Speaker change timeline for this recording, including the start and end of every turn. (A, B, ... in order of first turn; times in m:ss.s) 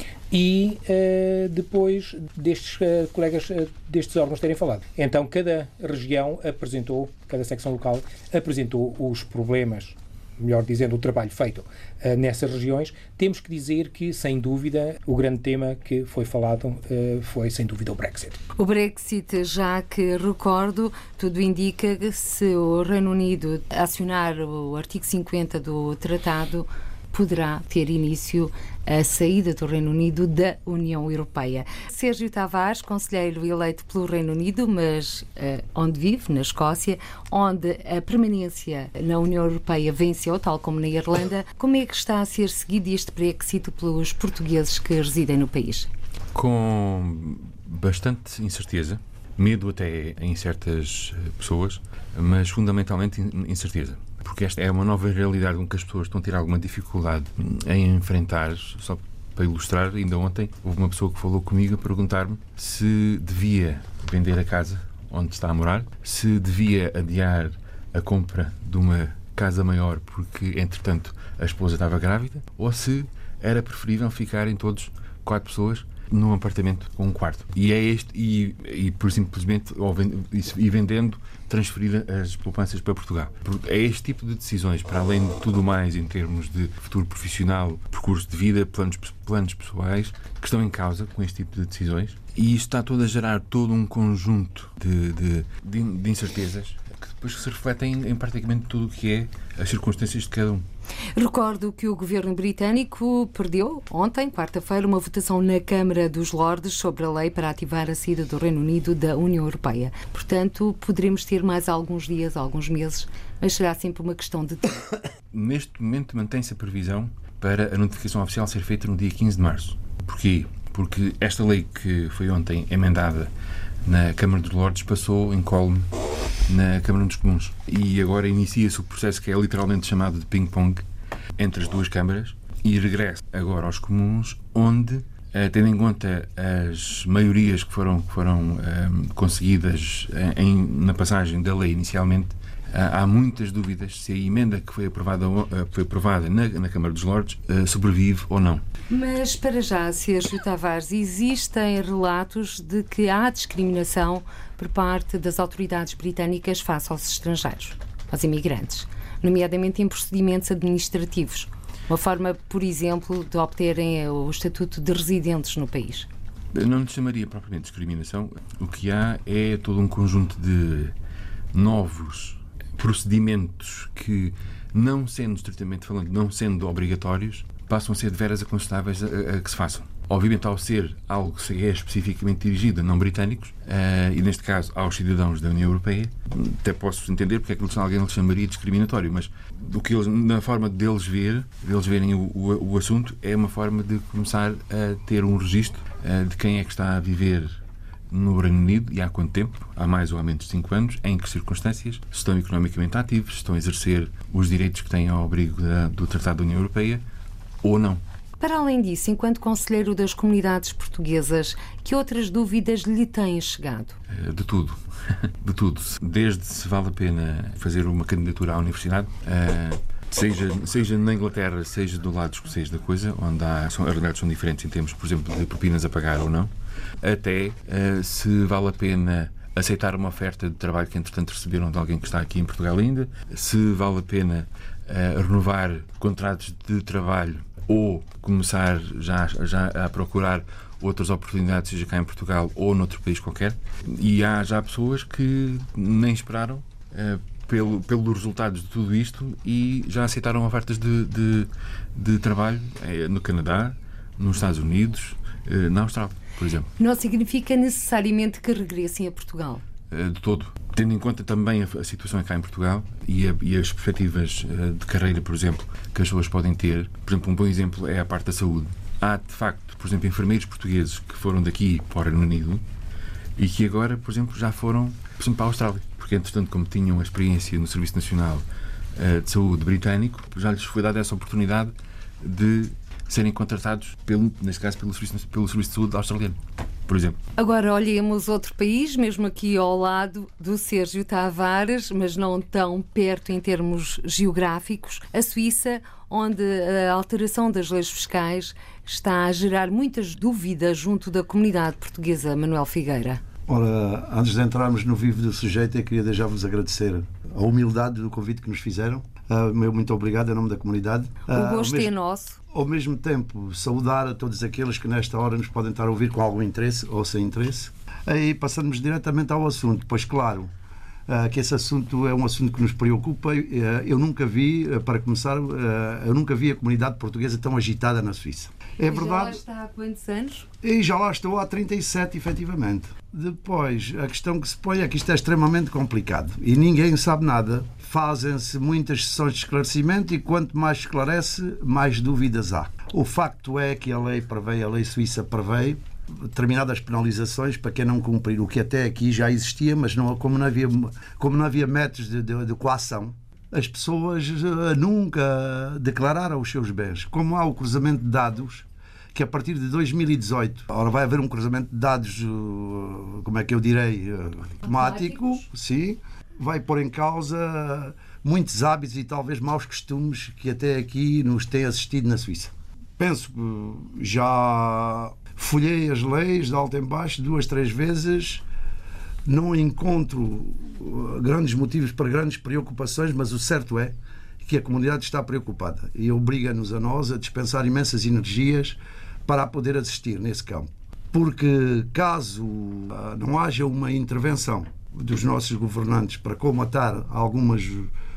0:00.3-0:18.4 A
0:18.6-0:45.9 B
0:46.3-1:40.7 C
1:41.2-1:54.9 B
1:55.3-2:03.3 C
2:03.8-2:05.9 C
2:06.5-2:10.8 C
2:11.4-2:28.6 C
2:28.9-2:46.1 B
2:46.5-2:51.0 C
2:51.5-3:27.0 C
3:27.6-3:28.0 C
3:28.4-3:34.0 B
3:34.1-4:16.7 C
4:16.8-4:19.6 B
4:19.9-4:32.6 C
4:33.4-4:38.4 C
4:39.0-4:47.2 C
4:47.4-5:03.2 B
5:03.5-5:11.9 D
5:11.3-5:12.4 B
5:12.5-5:20.5 D
5:21.1-5:29.4 D
5:28.8-5:30.5 B
5:30.6-6:18.4 D
6:04.6-6:05.4 B
6:19.2-6:37.9 D